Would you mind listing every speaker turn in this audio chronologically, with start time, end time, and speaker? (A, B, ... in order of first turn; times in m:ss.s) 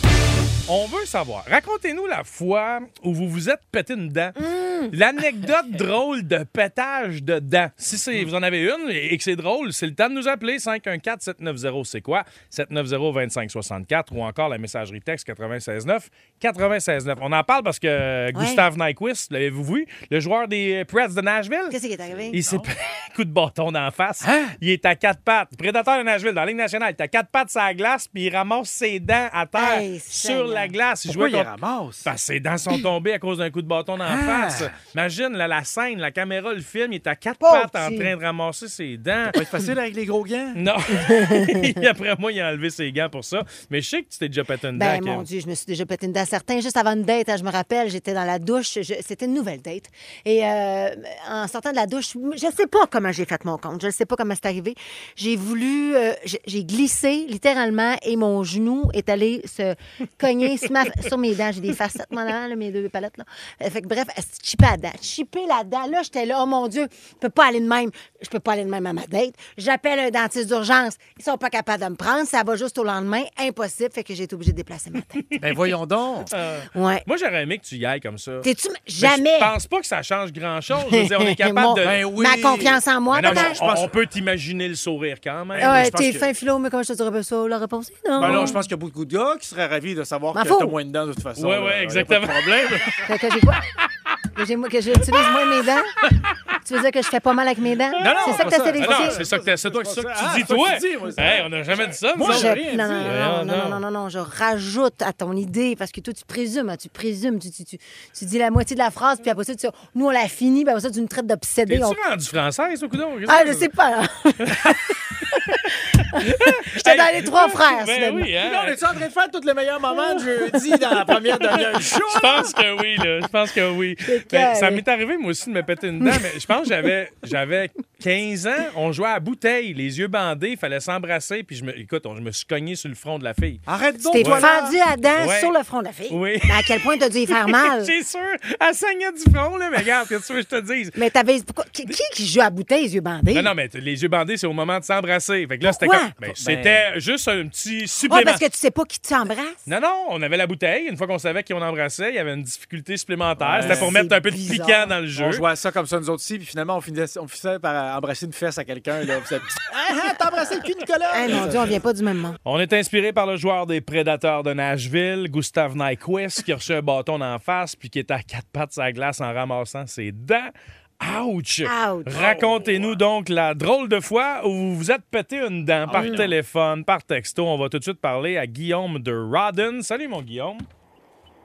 0:00.7-0:04.4 A
0:04.4-0:04.9 B
0:04.9-0:21.8 A
0:18.4-0:18.6 B
0:21.7-0:22.4 B
0:22.1-0:22.7 C
0:22.3-0:31.5 A
0:24.2-0:24.6 C
0:29.6-0:30.7 B
0:31.1-0:32.1 C
0:32.0-0:39.4 A
0:34.0-0:34.7 C
0:37.4-0:38.1 B
0:39.3-0:40.6 C
0:40.6-0:45.3 A
0:41.0-0:41.6 B
0:44.8-1:15.3 B
1:15.4-1:16.3 C
1:16.3-1:18.5 A
1:16.7-1:17.0 B
1:18.4-1:19.5 B
1:19.0-1:22.0 A
1:20.9-1:23.6 B
1:21.8-1:23.9 C
1:23.1-1:26.2 A
1:25.6-1:26.0 C
1:25.6-1:28.6 B
1:28.2-1:33.0 C
1:28.2-1:28.6 A
1:30.3-1:30.8 B
1:31.4-1:33.0 A
1:33.0-1:33.6 B
1:34.4-1:35.9 B
1:36.6-1:39.2 B
1:38.0-1:43.8 A
1:38.0-1:43.2 C
1:42.2-1:52.0 B
1:51.7-1:53.7 A
1:53.3-1:54.8 B
1:54.4-1:54.9 A
1:55.3-1:58.3 B
1:56.2-1:58.8 A
1:58.4-2:02.6 C
2:02.0-2:13.6 A
2:04.1-2:04.8 B
2:13.7-2:14.8 C
2:14.1-2:17.9 B
2:14.2-2:14.5 A
2:15.2-2:15.5 A
2:16.1-2:21.0 A
2:21.0-2:23.5 B
2:23.3-2:28.4 A
2:25.6-2:26.1 B
2:26.2-2:26.8 C
2:28.1-2:29.6 B
2:29.7-2:35.5 A
2:33.4-2:34.0 C
2:33.5-2:34.9 B
2:35.2-2:41.8 C
2:41.1-2:42.4 B
2:42.4-3:00.7 A
2:51.6-2:52.4 B
2:52.2-2:53.0 C
2:55.9-2:56.4 C
2:55.9-2:56.3 B